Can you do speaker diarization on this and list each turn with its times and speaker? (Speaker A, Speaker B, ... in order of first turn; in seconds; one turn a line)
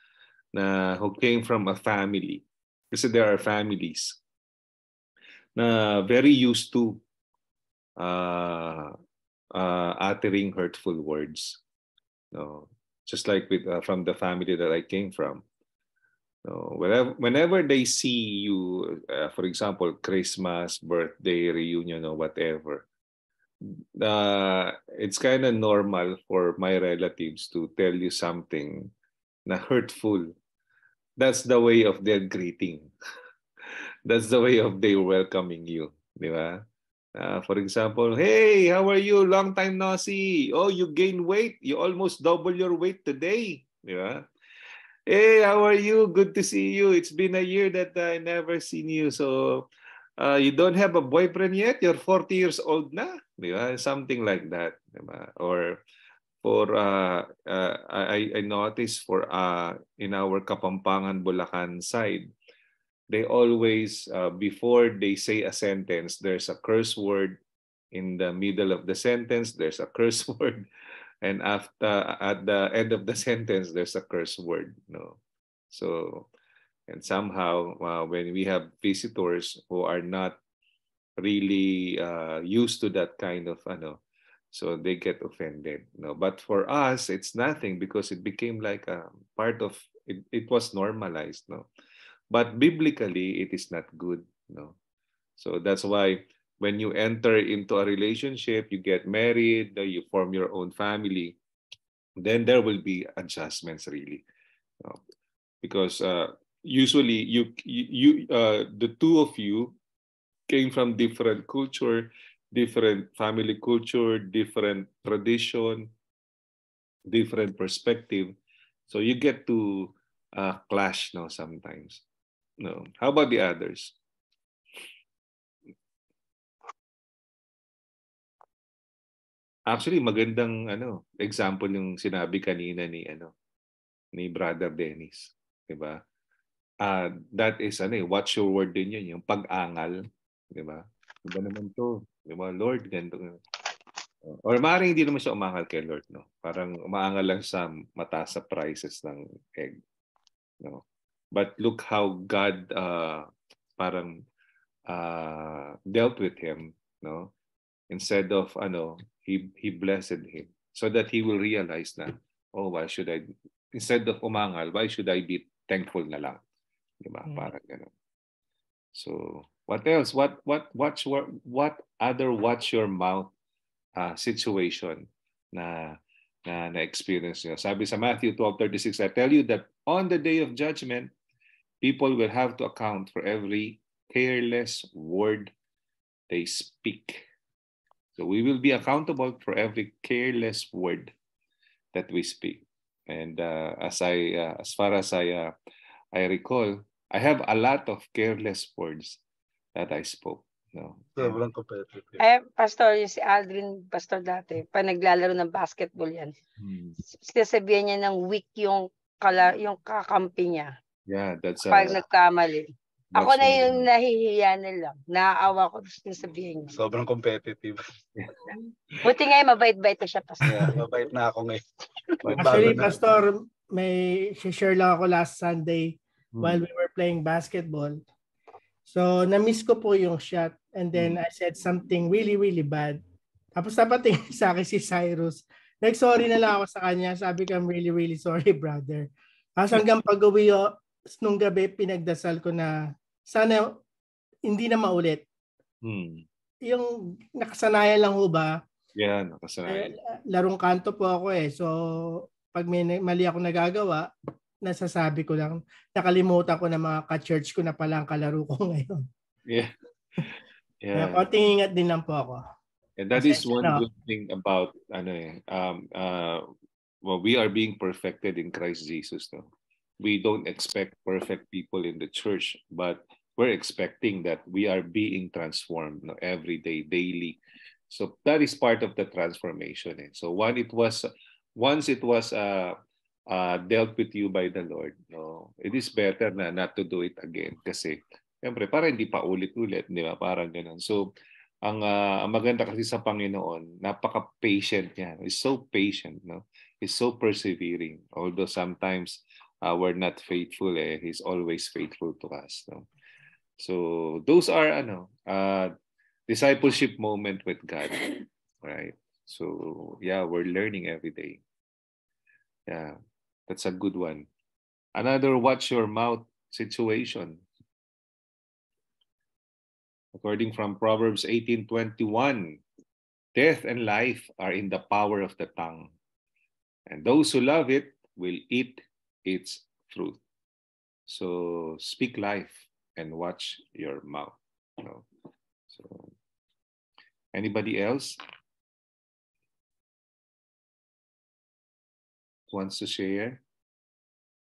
Speaker A: 0.5-4.2
Speaker A: 5.5-7.0
Speaker A: 8.0-8.9
Speaker A: 9.5-11.6
Speaker A: 12.3-15.4
Speaker A: 16.4-22.8
Speaker A: 23.7-28.9
Speaker A: 29.5-30.3
Speaker A: 31.2-32.9
Speaker A: 34.0-36.6
Speaker A: 37.1-44.2
Speaker A: 45.1-49.6
Speaker A: 50.2-55.8
Speaker A: 56.4-62.3
Speaker A: 63.1-67.4
Speaker A: 67.9-70.7
Speaker A: 71.2-75.2
Speaker A: 75.7-76.3
Speaker A: 76.9-80.4
Speaker A: 81.2-84.0
Speaker A: 84.5-91.7
Speaker A: 92.3-94.7
Speaker A: 95.4-101.3
Speaker A: 102.2-104.2
Speaker A: 105.6-109.7
Speaker A: 110.5-115.9
Speaker A: 117.1-118.3
Speaker A: 118.9-122.0
Speaker A: 122.6-123.9
Speaker A: 129.7-133.3
Speaker A: 134.1-136.0
Speaker A: 136.8-140.0
Speaker A: 140.5-143.4
Speaker A: 144.2-149.8
Speaker A: 151.3-154.2
Speaker A: 154.9-157.3
Speaker A: 157.9-166.4
Speaker A: 167.0-167.9
Speaker A: 168.9-173.3
Speaker A: 174.0-181.1
Speaker A: 181.8-185.5
Speaker A: 186.3-187.2
Speaker A: 188.2-191.1
Speaker A: 191.9-195.5
Speaker A: 196.1-199.2
Speaker A: 199.7-201.4
Speaker B: 201.2-202.2
Speaker C: 202.2-206.3
Speaker A: 206.6-207.0
Speaker C: 207.1-210.7
Speaker A: 211.1-212.0
Speaker C: 211.6-216.7
Speaker A: 213.1-213.9
Speaker B: 216.7-217.8
Speaker C: 219.0-220.7
Speaker B: 220.4-221.6
Speaker B: 222.2-223.0
Speaker A: 222.3-222.9
Speaker D: 222.3-228.0
Speaker A: 226.3-226.6
Speaker D: 228.9-233.0
Speaker D: 233.6-239.1
Speaker D: 239.6-240.6
Speaker D: 241.2-242.7
Speaker D: 243.3-243.6
Speaker D: 244.5-245.2
Speaker A: 245.8-246.2
Speaker D: 246.7-248.5
Speaker A: 248.9-249.9
Speaker D: 249.7-251.7
Speaker D: 252.5-254.1
Speaker D: 254.7-259.0
Speaker A: 259.5-259.7
Speaker A: 260.8-261.2
Speaker D: 260.9-262.4
Speaker A: 263.0-266.5
Speaker D: 263.2-263.8
Speaker A: 267.0-269.5
Speaker A: 270.0-277.4
Speaker A: 277.9-282.8
Speaker A: 283.3-291.1
Speaker A: 291.6-302.9
Speaker A: 303.6-305.7
Speaker A: 306.3-308.1
Speaker A: 308.6-311.4
Speaker A: 312.7-312.9
Speaker A: 313.5-314.3
Speaker A: 314.9-317.4
Speaker A: 320.1-322.6
Speaker A: 323.3-325.9
Speaker A: 326.9-330.2
Speaker A: 331.1-335.1
Speaker A: 335.7-336.1
Speaker A: 337.3-338.1
Speaker A: 342.5-343.4